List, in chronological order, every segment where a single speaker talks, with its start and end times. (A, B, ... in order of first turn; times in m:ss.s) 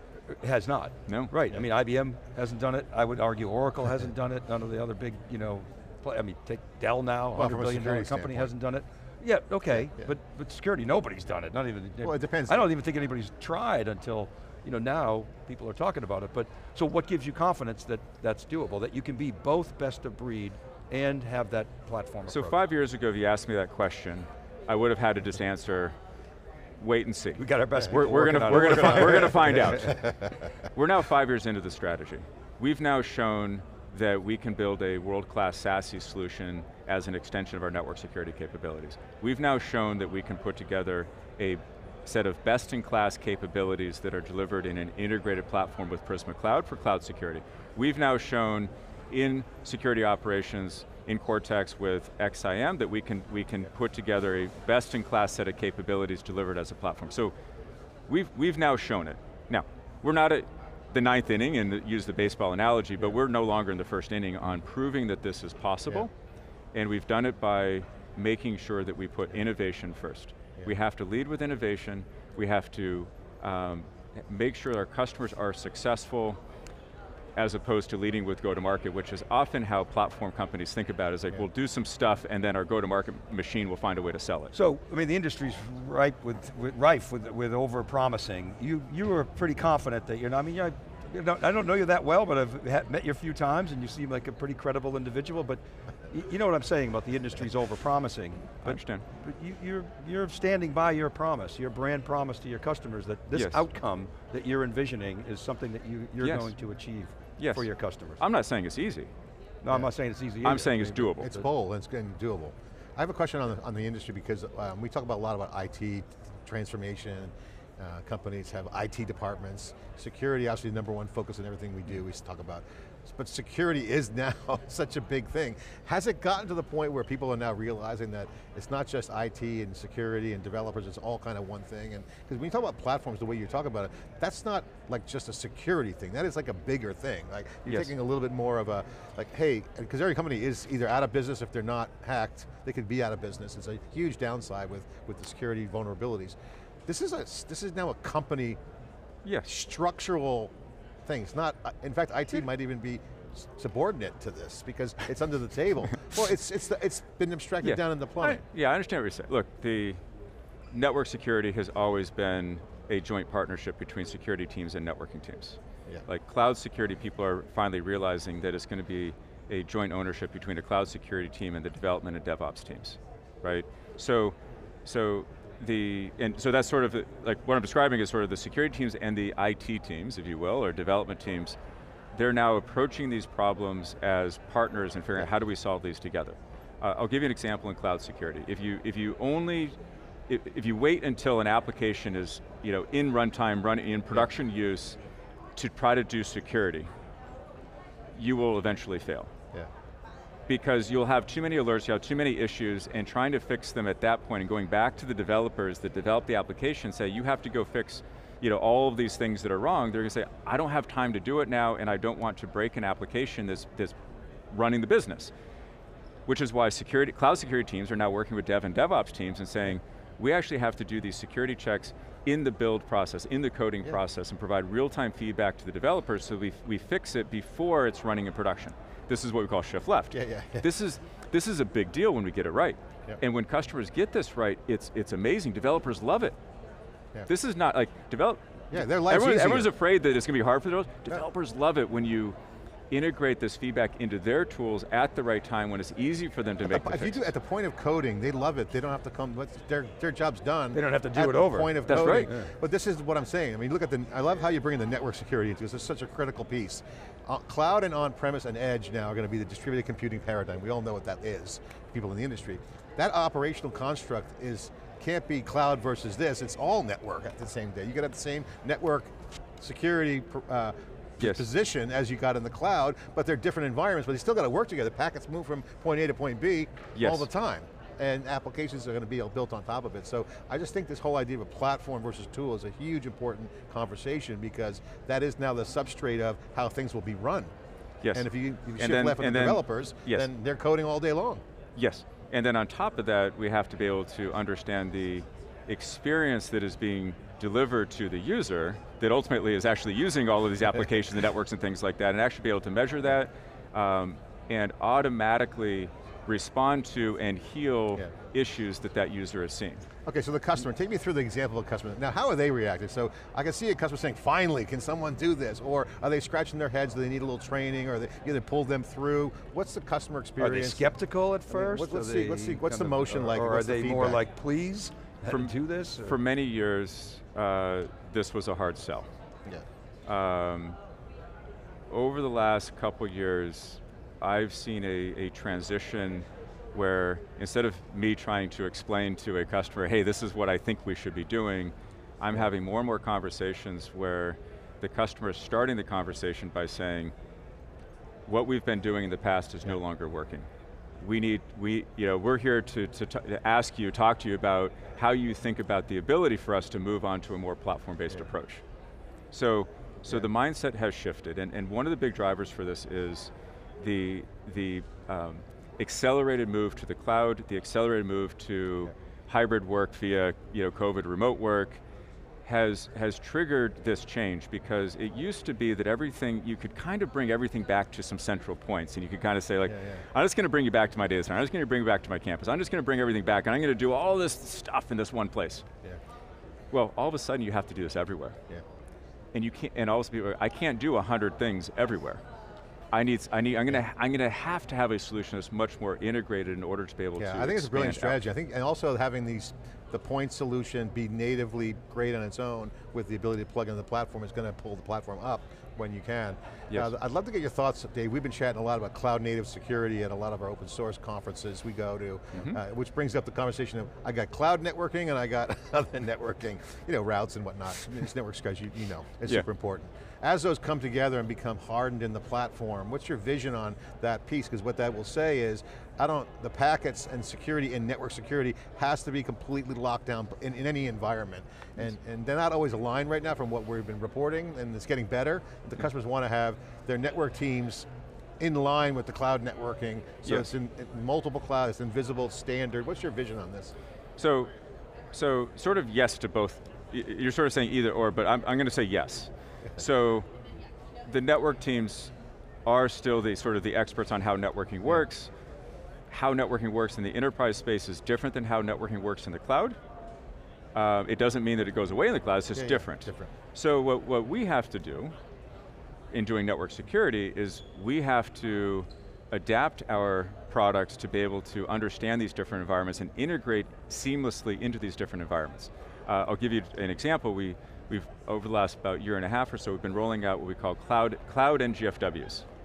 0:00.3-0:22.6 A
0:01.1-0:01.3 B
0:07.3-0:08.5 C
0:09.7-0:10.1 C
0:12.0-0:12.7 C
0:22.3-0:25.9 B
0:26.8-0:57.3 B
0:27.4-0:29.9 A
0:28.5-0:30.1 C
0:58.1-1:06.1 B
1:06.7-1:16.4 B
1:17.4-1:24.5 B
1:24.5-1:48.2 A
1:38.6-1:39.0 B
1:43.3-1:43.6 B
1:46.2-1:46.5 B
1:47.4-1:49.1 B
1:49.6-1:51.5 A
1:50.4-1:51.3 B
1:51.2-2:28.6 C
2:29.2-2:29.5 B
2:29.4-2:30.5 C
2:31.0-2:38.4 C
2:37.6-2:40.0 B
2:40.7-3:01.6 B
3:02.1-3:09.8 B
3:10.3-3:15.0 B
3:15.6-3:16.9 B
3:18.1-3:19.3 B
3:20.5-3:33.9 B
3:34.5-3:35.3 B
3:36.3-3:56.3 B
3:50.1-3:50.7 C
3:57.3-4:02.4 B
3:58.7-3:59.7 C
4:02.9-4:07.3 B
4:06.6-4:47.5 C
4:10.7-4:12.5 A
4:11.9-4:12.3 B
4:31.2-4:31.4 B
4:36.9-4:37.3 B
4:48.1-4:51.4 C
4:48.8-4:50.3 B
4:51.8-5:09.8 B
5:10.0-5:20.9 C
5:20.4-5:26.2 A
5:21.5-5:24.2 C
5:25.3-5:29.1 B
5:30.1-5:30.8 B
5:31.9-5:47.1 B
5:48.3-5:50.5 B
5:51.0-5:58.6 B
5:59.3-6:11.8 B
6:12.4-6:25.6 B
6:19.6-6:20.0 C
6:26.7-6:28.4 B
6:29.3-6:32.2 B
6:32.9-6:38.2 B
6:37.2-7:17.9 C
6:52.3-6:52.6 B
7:18.4-7:23.7 C
7:20.2-7:20.5 B
7:24.2-7:24.5 B
7:25.1-7:30.3 B
7:31.0-7:32.1 B
7:32.6-7:35.3 B
7:36.1-7:39.8 B
7:40.7-7:45.1 B
7:42.5-7:43.3 C
7:46.1-8:02.4 B